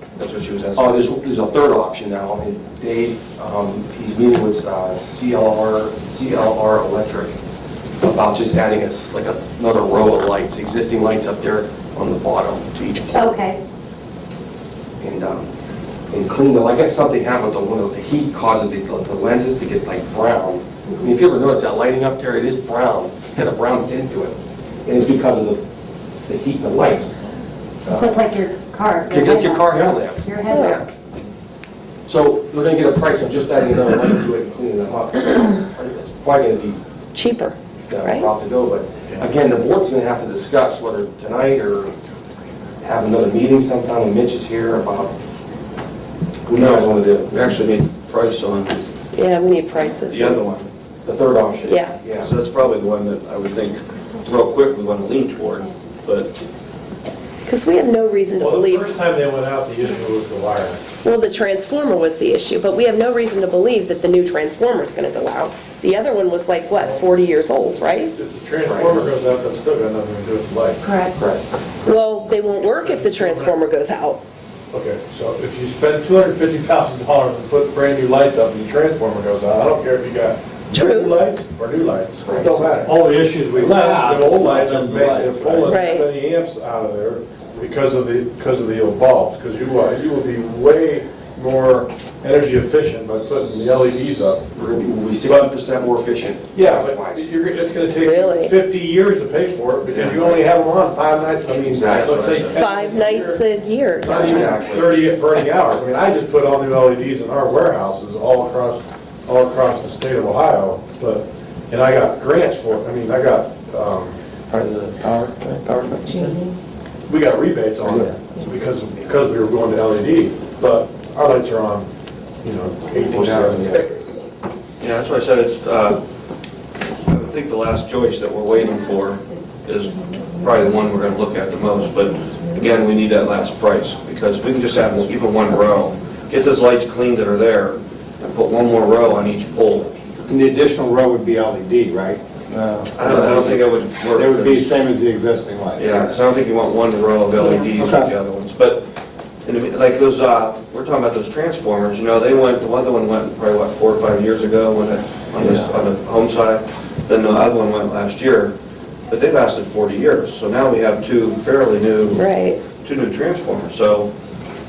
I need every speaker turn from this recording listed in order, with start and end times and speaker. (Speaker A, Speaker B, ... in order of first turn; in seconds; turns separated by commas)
Speaker A: 0.1-1.1, Speaker B: 0.7-7.4, Speaker B: 8.0-13.5, Speaker C: 13.1-13.6, Speaker B: 15.0-15.5, Speaker B: 16.1-25.6, Speaker B: 26.2-27.2, Speaker B: 27.8-28.3, Speaker C: 27.9-30.8, Speaker B: 29.1-30.9, Speaker D: 30.5-30.8, Speaker B: 32.0-36.8, Speaker D: 37.1-38.3, Speaker B: 37.9-41.9, Speaker B: 42.8-45.1, Speaker B: 46.5-47.4, Speaker A: 46.5-48.8, Speaker D: 49.1-50.4, Speaker A: 50.0-50.7, Speaker B: 51.0-52.3, Speaker D: 51.7-51.9, Speaker A: 52.2-56.4, Speaker D: 57.4-58.9, Speaker E: 58.4-60.8, Speaker D: 61.0-68.1, Speaker E: 66.7-67.1, Speaker E: 68.1-70.8, Speaker B: 68.7-69.1, Speaker D: 70.8-71.1, Speaker B: 71.1-71.4, Speaker D: 71.8-74.2, Speaker E: 72.5-73.6, Speaker E: 74.7-94.6, Speaker D: 80.7-81.2, Speaker B: 82.2-82.6, Speaker F: 82.3-85.8, Speaker D: 85.6-86.1, Speaker B: 94.5-97.3, Speaker E: 95.2-95.5, Speaker E: 96.5-103.5, Speaker D: 98.0-98.5, Speaker B: 99.9-100.4, Speaker B: 101.6-102.3, Speaker A: 101.9-102.6, Speaker D: 102.5-104.5, Speaker E: 104.0-114.2, Speaker B: 104.0-105.1, Speaker G: 114.5-116.4, Speaker C: 116.0-116.5, Speaker E: 117.1-121.9, Speaker E: 122.4-123.9, Speaker B: 122.9-123.8, Speaker A: 124.8-126.0, Speaker A: 127.0-139.9, Speaker C: 128.6-129.1, Speaker C: 131.8-132.7, Speaker F: 140.3-142.2, Speaker G: 142.5-143.5, Speaker A: 142.9-144.8, Speaker F: 143.0-146.2, Speaker A: 145.7-148.9, Speaker F: 147.7-148.1, Speaker A: 149.4-158.5, Speaker G: 155.4-155.8, Speaker A: 159.1-164.1, Speaker D: 162.1-162.6